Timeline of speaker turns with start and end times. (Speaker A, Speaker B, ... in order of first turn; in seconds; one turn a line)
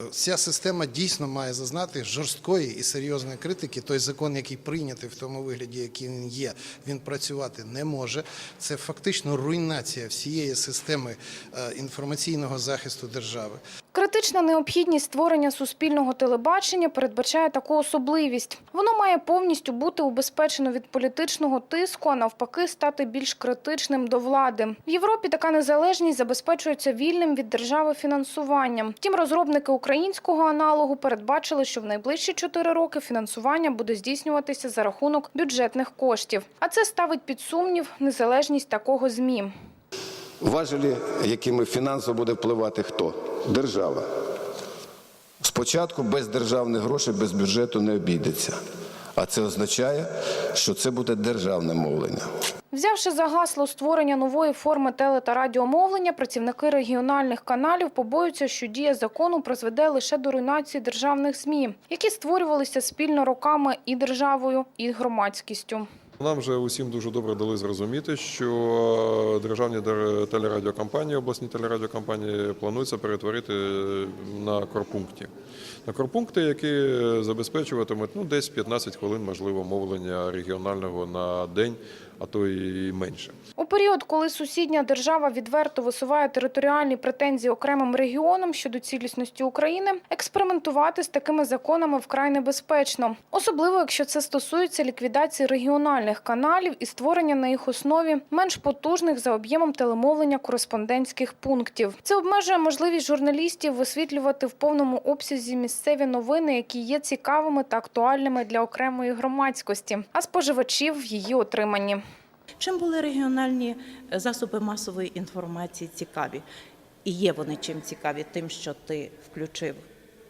Speaker A: 0.1-13.6
Speaker B: 13.9-39.5
Speaker C: 40.4-44.1
Speaker C: 45.4-48.6
Speaker C: 49.1-52.3
Speaker B: 52.7-65.8
Speaker D: 66.2-75.3
Speaker D: 75.8-83.3
Speaker B: 83.6-112.0
Speaker E: 112.6-116.4
Speaker E: 117.0-119.8